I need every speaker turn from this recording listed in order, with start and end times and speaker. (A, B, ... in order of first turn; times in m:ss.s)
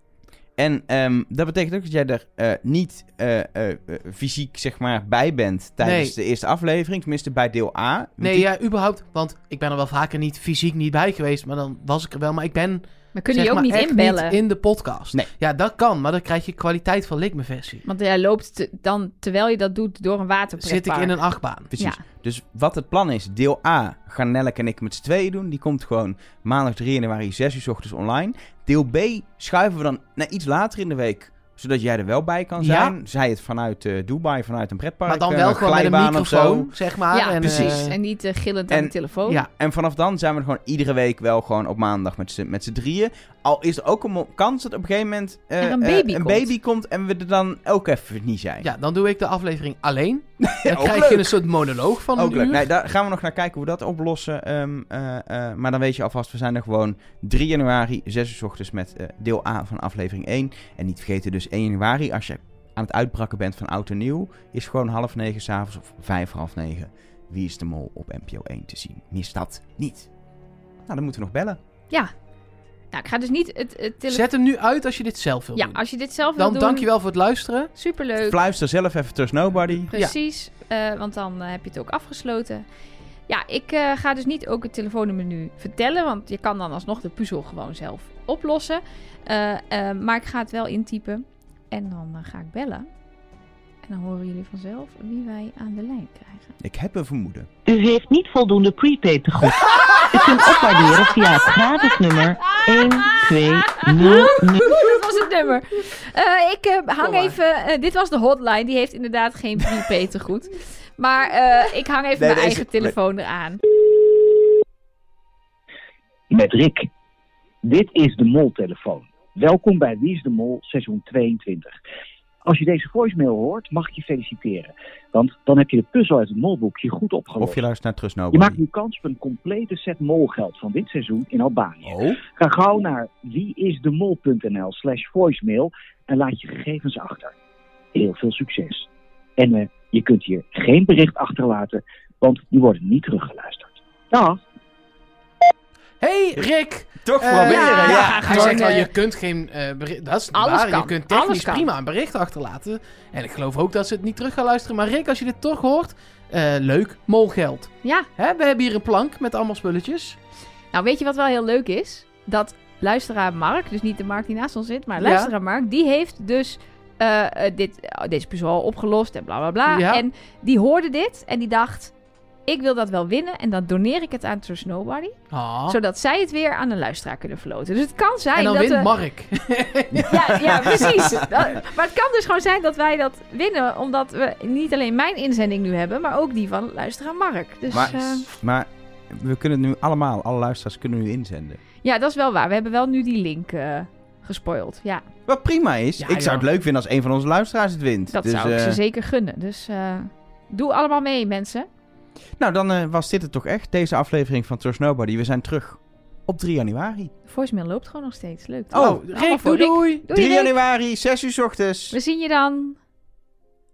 0:00.6-0:08.5 A
0:05.8-0:06.2 B
0:08.2-0:17.8 B
0:13.1-0:14.4 C
0:17.9-0:21.2 C
0:20.6-0:21.7 B
0:21.7-0:36.7 A
0:32.6-0:33.0 B
0:35.1-0:38.0 B
0:37.1-0:39.4 C
0:37.4-0:37.8 A
0:38.7-0:48.7 A
0:45.6-0:46.5 C
0:48.6-0:52.5 B
0:50.4-0:51.4 A
0:52.2-1:10.1 A
0:52.2-0:52.6 C
1:10.9-1:11.6 A
1:12.9-1:14.2 C
1:14.1-1:15.8 B
1:15.6-1:16.9 C
1:16.4-1:17.7 B
1:17.8-1:18.4 C
1:18.2-1:19.9 A
1:19.8-1:22.6 C
1:23.3-1:32.9 C
1:33.9-1:36.6 C
1:36.6-1:37.5 A
1:37.6-1:44.8 D
1:42.6-1:43.2 C
1:43.9-1:53.6 C
1:47.0-1:47.4 B
1:52.2-1:52.9 A
1:56.3-1:56.9 E
1:57.6-2:01.8 E
2:02.4-2:07.6 E
2:07.4-2:08.6 A
2:08.3-2:17.3 E
2:11.8-2:12.2 A
2:17.9-2:18.9 E
2:19.4-2:24.4 E
2:26.0-2:40.2 B
2:27.0-2:28.7 A
2:27.4-2:28.9 C
2:30.3-2:31.7 C
2:40.7-2:51.9 C
2:45.0-2:45.3 B
2:49.7-2:50.0 B
2:52.5-2:58.9 C
2:55.3-2:55.8 B
2:58.4-3:01.0 B
3:00.1-3:08.3 C
3:07.7-3:11.6 A
3:11.8-3:15.0 C
3:15.3-3:18.8 A
3:16.0-3:16.5 B
3:18.1-3:21.7 C
3:22.4-3:27.1 A
3:27.3-3:30.5 C
3:28.7-3:30.0 B
3:28.7-3:29.0 A
3:30.1-3:32.0 A
3:31.9-3:32.8 C